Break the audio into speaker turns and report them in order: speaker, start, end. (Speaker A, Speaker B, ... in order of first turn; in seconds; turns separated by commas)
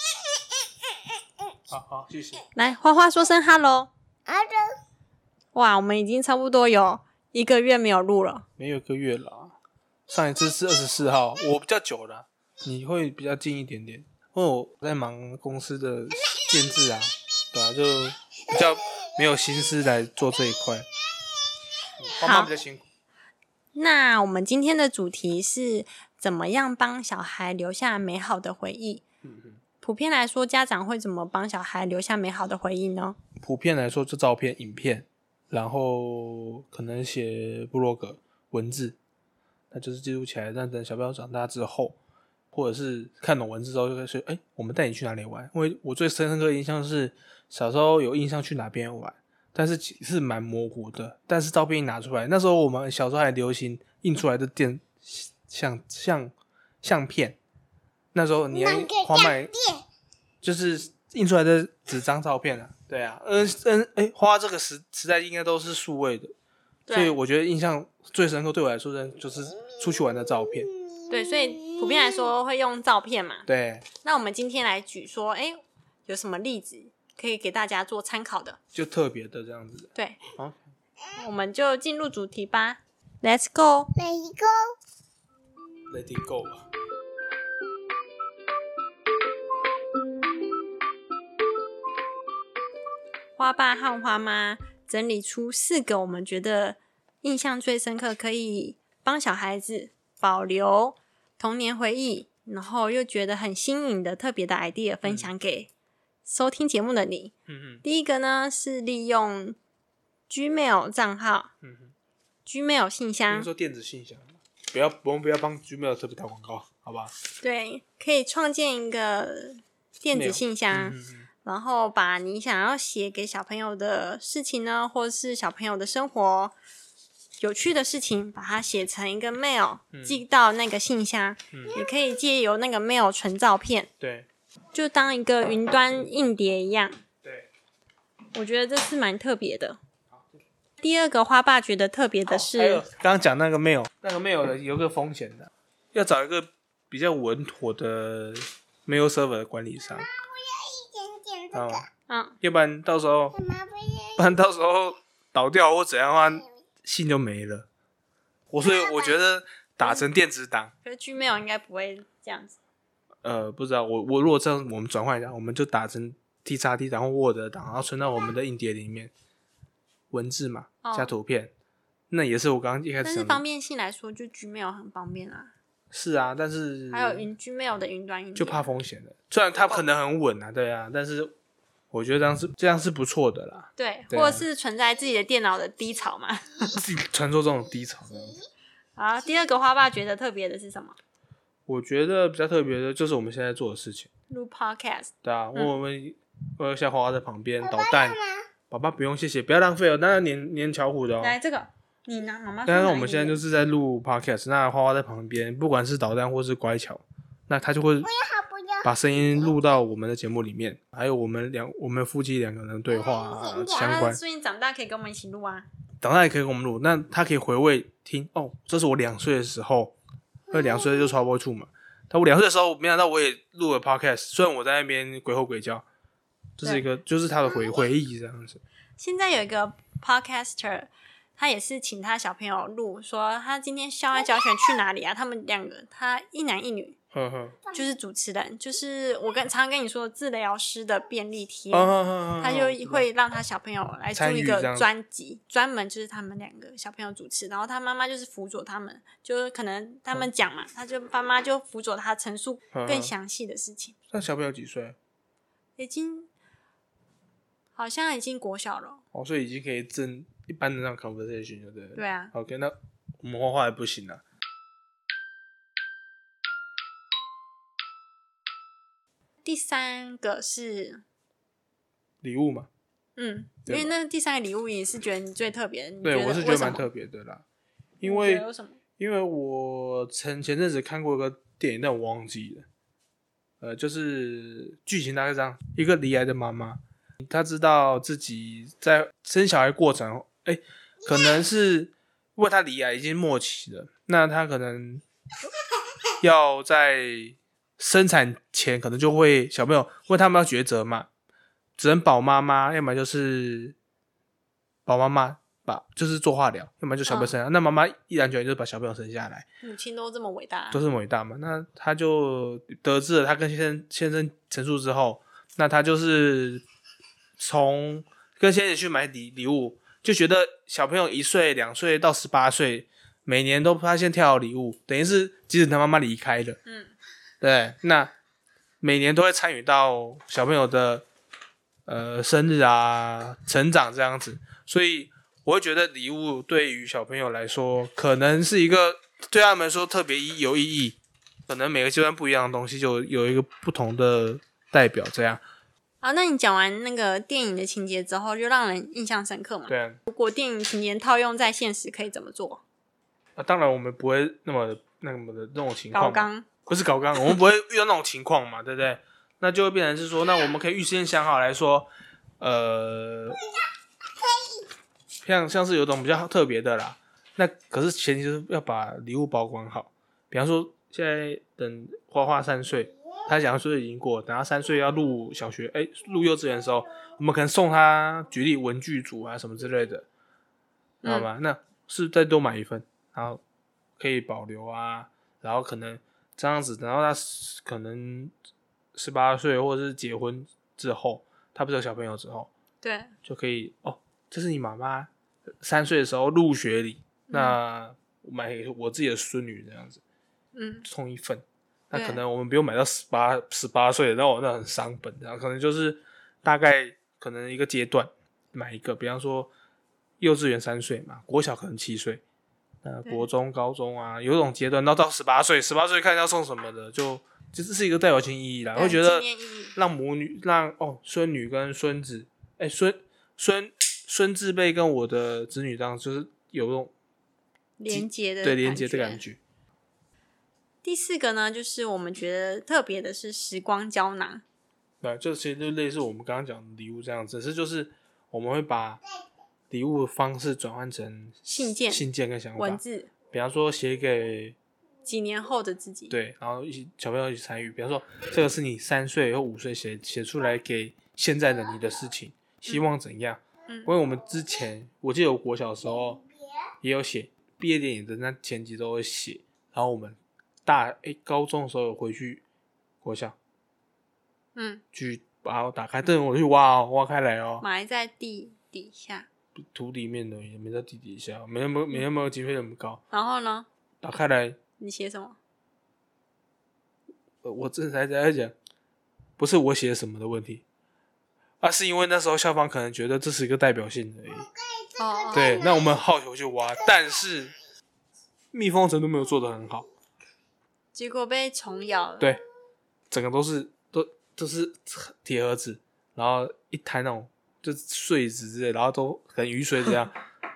Speaker A: 1.7-2.5, Speaker B: 2.5-3.9, Speaker C: 4.3-4.6, Speaker B: 5.5-8.5, Speaker A: 8.6-9.6, Speaker A: 10.1-20.9, Speaker A: 22.0-22.8, Speaker B: 22.2-22.5, Speaker B: 23.8-29.0, Speaker A: 29.2-29.6, Speaker B: 29.8-33.2, Speaker A: 33.4-39.0, Speaker A: 39.7-42.0, Speaker A: 42.5-57.4, Speaker A: 58.1-59.8, Speaker A: 60.4-66.3, Speaker B: 66.9-67.2, Speaker A: 66.9-70.7, Speaker B: 71.1-73.5, Speaker A: 73.5-73.9, Speaker B: 74.0-78.6, Speaker A: 78.7-80.6, Speaker B: 80.0-80.2, Speaker B: 81.1-84.2, Speaker C: 84.2-84.5, Speaker A: 85.9-86.7, Speaker B: 93.4-105.7, Speaker A: 105.0-105.3, Speaker B: 106.2-107.3, Speaker A: 107.5-107.8, Speaker B: 107.8-109.6, Speaker B: 110.3-111.5, Speaker A: 111.6-111.9, Speaker B: 112.5-113.5, Speaker A: 113.3-117.2, Speaker B: 117.4-126.5, Speaker A: 120.1-121.3, Speaker B: 127.4-133.9, Speaker A: 129.9-130.2, Speaker A: 134.0-134.3, Speaker B: 134.7-137.0, Speaker B: 138.3-139.8, Speaker B: 140.8-142.8, Speaker A: 142.3-150.1, Speaker C: 150.5-151.5, Speaker A: 151.5-151.9, Speaker B: 152.1-152.4, Speaker A: 152.4-153.5, Speaker C: 153.6-154.0, Speaker A: 154.1-157.7, Speaker A: 158.5-160.7, Speaker B: 160.8-162.6, Speaker A: 163.2-169.1, Speaker A: 170.1-171.5, Speaker B: 170.8-171.1, Speaker A: 172.1-173.4, Speaker B: 173.0-175.5, Speaker A: 175.9-177.3, Speaker B: 176.9-178.6, Speaker A: 178.4-181.3, Speaker A: 181.9-184.4, Speaker B: 183.8-186.7, Speaker A: 186.7-188.4, Speaker B: 189.0-191.0, Speaker A: 191.7-194.1, Speaker B: 194.3-195.7, Speaker A: 195.2-201.4, Speaker B: 201.2-203.4, Speaker A: 202.7-208.2, Speaker C: 208.3-208.7, Speaker A: 208.8-214.2, Speaker B: 213.7-215.7, Speaker A: 216.0-219.9, Speaker A: 220.5-225.8, Speaker A: 226.6-228.6, Speaker B: 229.0-237.0, Speaker A: 237.1-237.6, Speaker B: 237.7-253.9, Speaker A: 241.7-243.1, Speaker A: 244.2-244.9, Speaker A: 252.7-253.1, Speaker A: 254.1-255.0, Speaker B: 255.8-256.3, Speaker B: 257.8-259.0, Speaker A: 259.1-264.2, Speaker B: 262.0-262.3, Speaker B: 269.4-271.0, Speaker A: 272.2-272.7, Speaker B: 273.2-276.8, Speaker A: 273.7-273.9, Speaker A: 276.0-277.4, Speaker A: 278.0-278.5, Speaker B: 278.0-278.8, Speaker A: 279.0-282.7, Speaker A: 283.6-295.0, Speaker A: 296.2-301.1, Speaker A: 301.8-303.8, Speaker A: 304.9-309.4, Speaker B: 307.1-307.4, Speaker B: 309.6-310.8, Speaker A: 310.7-316.6, Speaker A: 317.4-326.6, Speaker B: 326.7-326.9, Speaker A: 327.4-328.1, Speaker A: 328.8-331.1, Speaker A: 331.9-341.0, Speaker A: 341.5-345.4, Speaker B: 346.0-352.6, Speaker A: 349.7-350.0, Speaker A: 353.4-363.4, Speaker B: 355.9-356.5, Speaker A: 365.2-380.1, Speaker A: 381.0-383.4, Speaker A: 384.0-388.3, Speaker A: 388.9-392.5, Speaker B: 392.8-393.1, Speaker A: 393.2-395.1, Speaker A: 395.6-400.0, Speaker B: 397.3-397.6, Speaker B: 400.5-400.9, Speaker A: 400.9-409.5, Speaker B: 401.9-402.2, Speaker A: 410.2-412.2, Speaker A: 412.8-426.9, Speaker B: 418.8-419.7, Speaker B: 427.8-429.2, Speaker A: 427.9-429.4, Speaker B: 430.8-434.4, Speaker A: 435.0-439.0, Speaker A: 439.7-442.8, Speaker B: 441.5-442.1, Speaker B: 442.6-443.1, Speaker A: 443.3-444.6, Speaker B: 445.1-446.1, Speaker A: 446.1-456.2, Speaker A: 456.8-462.4, Speaker A: 463.0-463.4, Speaker B: 464.6-464.8, Speaker A: 464.9-467.6, Speaker B: 467.6-469.3, Speaker A: 469.6-473.0, Speaker B: 473.1-473.7, Speaker A: 474.0-474.6, Speaker B: 474.8-475.4, Speaker A: 477.4-478.5, Speaker A: 479.4-480.6, Speaker A: 481.6-484.5, Speaker B: 485.0-485.6, Speaker A: 485.3-487.6, Speaker A: 488.5-489.9, Speaker B: 490.9-492.3, Speaker A: 493.1-500.2